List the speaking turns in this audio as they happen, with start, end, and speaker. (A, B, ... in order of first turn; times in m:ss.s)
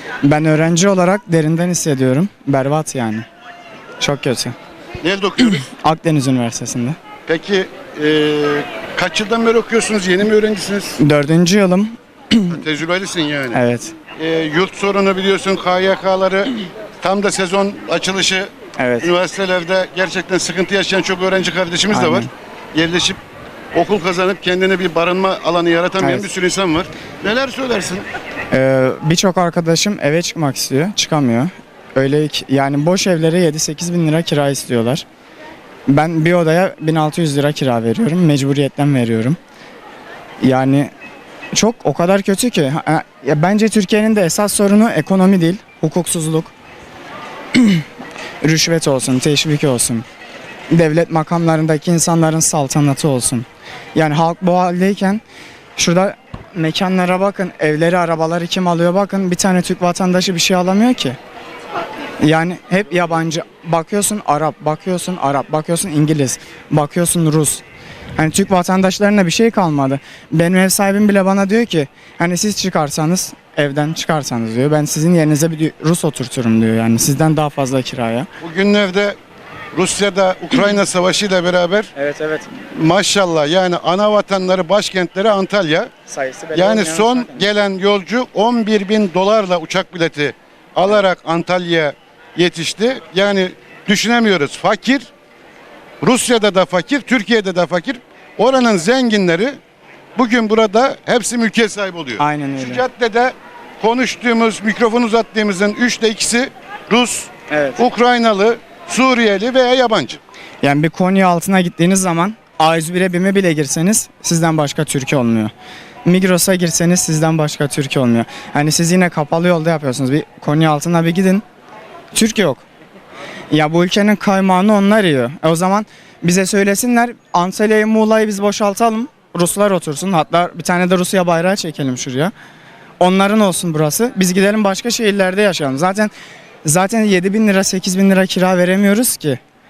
0:00.2-0:03.3 A
0:04.0-0:04.6 A
0:05.0-0:05.7 B
0:05.6-0:07.0 A
0:07.3-0:11.0 B
0:11.0-0:12.6 A
0:12.5-0:13.6 B
0:13.5-0:14.0 A
0:14.2-0:23.2 B
0:18.8-0:19.1 A
0:21.9-0:22.3 A
0:23.7-0:28.1 B
0:26.0-0:26.3 A
0:28.5-0:35.0 A
0:35.9-0:39.4 A
0:40.4-0:40.9 A
0:41.5-0:46.5 A
0:47.5-0:47.9 A
0:48.4-0:50.0 A
0:50.7-0:55.2 A
0:55.8-1:01.2 A
1:02.2-1:07.6 A
1:08.2-1:18.3 A
1:18.4-1:19.2 B
1:19.7-1:21.9 B
1:22.0-1:22.5 A
1:22.6-1:25.9 B
1:26.1-1:27.5 A
1:26.5-1:35.1 B
1:36.0-1:39.6 B
1:40.2-1:50.2 B
1:42.2-1:42.8 A
1:47.5-1:47.8 A
1:50.6-1:55.5 A
1:56.1-2:01.4 A
2:02.1-2:02.6 A
2:03.5-2:12.3 A
2:13.0-2:16.1 A
2:16.6-2:19.4 A